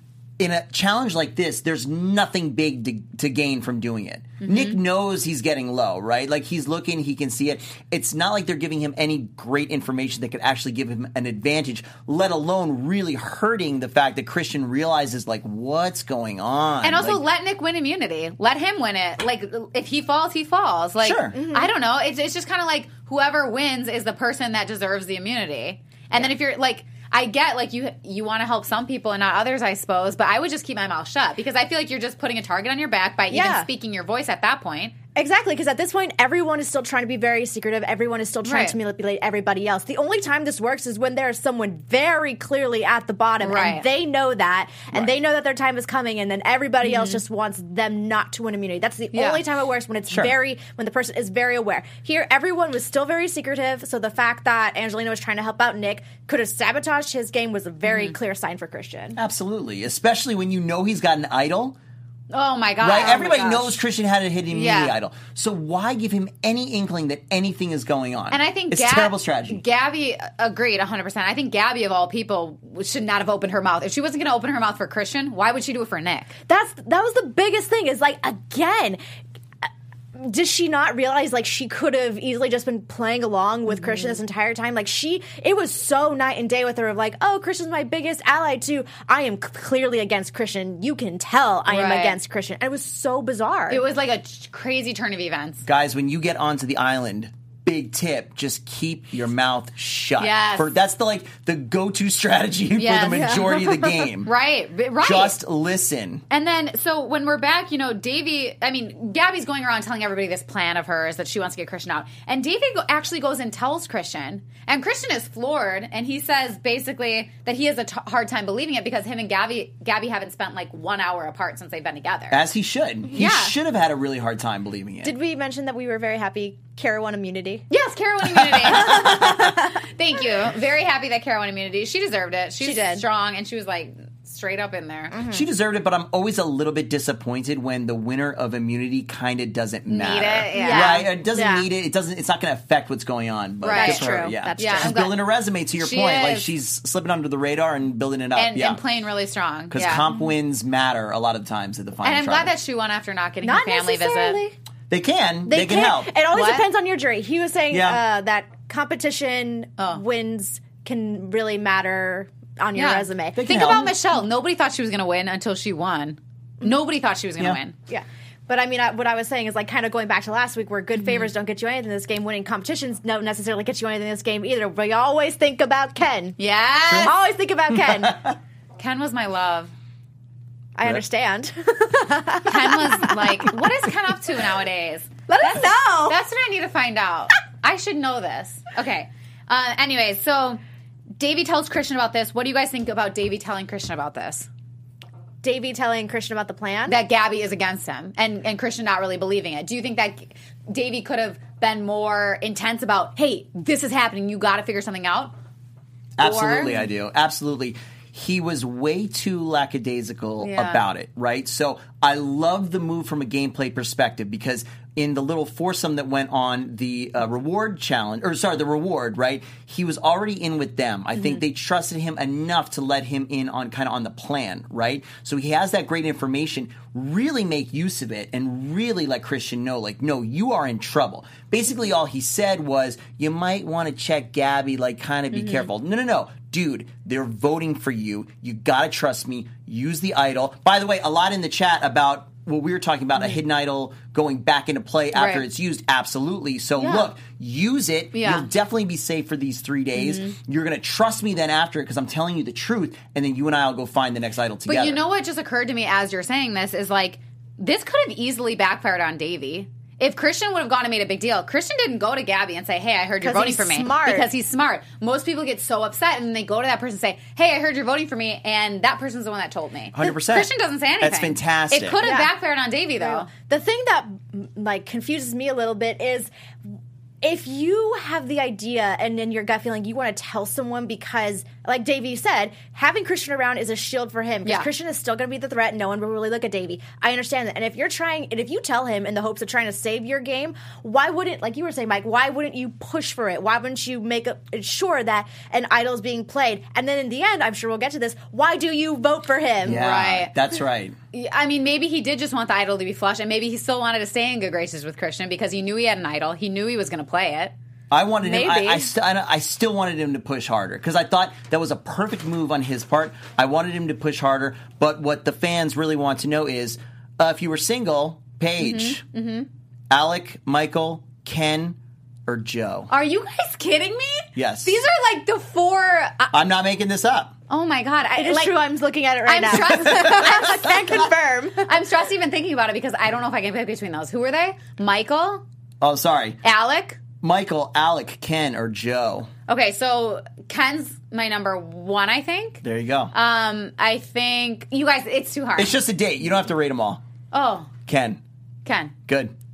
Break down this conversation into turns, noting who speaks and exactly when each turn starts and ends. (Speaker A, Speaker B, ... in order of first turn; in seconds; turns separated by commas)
Speaker A: 0.4-17.2, Speaker B: 4.4-4.8, Speaker B: 16.8-34.9, Speaker A: 21.0-21.3, Speaker C: 21.3-21.7, Speaker C: 33.3-33.7, Speaker C: 35.1-59.2, Speaker B: 38.4-38.8, Speaker B: 43.4-43.9, Speaker B: 46.8-47.2, Speaker B: 49.1-49.4, Speaker A: 50.1-50.3, Speaker B: 57.8-58.1, Speaker A: 59.1-61.8, Speaker B: 62.3-63.7, Speaker A: 62.8-69.6, Speaker B: 64.5-64.9, Speaker B: 68.3-76.3, Speaker C: 76.5-79.0, Speaker C: 80.2-93.9, Speaker B: 83.7-84.2, Speaker B: 91.7-92.2, Speaker B: 93.7-95.6, Speaker A: 95.6-104.3, Speaker B: 100.2-100.7, Speaker B: 102.8-103.3, Speaker C: 103.0-104.1, Speaker B: 104.2-105.3, Speaker A: 105.0-106.2, Speaker B: 106.3-122.4, Speaker A: 122.3-125.1, Speaker B: 123.1-123.5, Speaker C: 125.0-127.7, Speaker B: 127.7-135.1, Speaker A: 128.2-129.5, Speaker C: 128.8-129.8, Speaker C: 132.6-133.0, Speaker C: 135.1-135.4, Speaker A: 135.3-148.8, Speaker B: 139.9-141.1, Speaker C: 140.5-141.7, Speaker B: 143.6-145.2, Speaker C: 143.7-145.0, Speaker B: 145.8-146.5, Speaker B: 148.3-150.1, Speaker A: 149.7-152.5, Speaker B: 152.0-154.4, Speaker C: 153.4-154.6, Speaker A: 154.9-156.1, Speaker C: 155.4-163.4, Speaker B: 156.3-156.7, Speaker A: 157.7-158.0, Speaker B: 162.7-167.7, Speaker A: 163.3-163.9, Speaker C: 167.9-176.3, Speaker B: 171.0-171.3, Speaker B: 176.4-177.1, Speaker A: 176.9-177.1, Speaker C: 177.0-178.2, Speaker A: 177.7-178.4, Speaker B: 178.8-179.7, Speaker C: 180.8-183.6, Speaker B: 182.4-190.6, Speaker C: 185.3-186.2, Speaker B: 191.2-194.5, Speaker C: 195.4-197.0, Speaker B: 196.9-205.3, Speaker A: 206.2-255.0, Speaker B: 206.2-206.8, Speaker B: 210.4-210.8, Speaker B: 221.1-221.4, Speaker B: 235.3-235.6, Speaker B: 245.1-245.4, Speaker B: 246.8-247.1, Speaker B: 248.1-248.5, Speaker B: 249.9-250.3, Speaker B: 254.7-273.3, Speaker C: 263.2-264.3, Speaker A: 269.9-272.0, Speaker C: 272.0-272.3, Speaker C: 273.0-276.3, Speaker C: 277.2-299.9, Speaker A: 299.6-300.9, Speaker B: 299.6-300.4, Speaker B: 301.1-307.5, Speaker A: 307.9-319.0, Speaker C: 308.2-308.9, Speaker B: 318.6-319.5, Speaker A: 319.9-322.9, Speaker B: 322.9-326.3, Speaker A: 324.3-324.8, Speaker A: 326.3-327.3, Speaker B: 327.5-328.6, Speaker C: 328.1-331.7, Speaker B: 329.2-330.9, Speaker A: 329.6-330.8, Speaker B: 331.6-335.4, Speaker A: 335.8-336.4, Speaker B: 336.4-337.0, Speaker A: 337.2-339.3, Speaker B: 339.5-345.7, Speaker A: 342.6-343.1, Speaker A: 345.6-347.0, Speaker B: 347.3-347.7, Speaker A: 347.9-348.2, Speaker B: 348.6-348.9, Speaker A: 349.1-349.3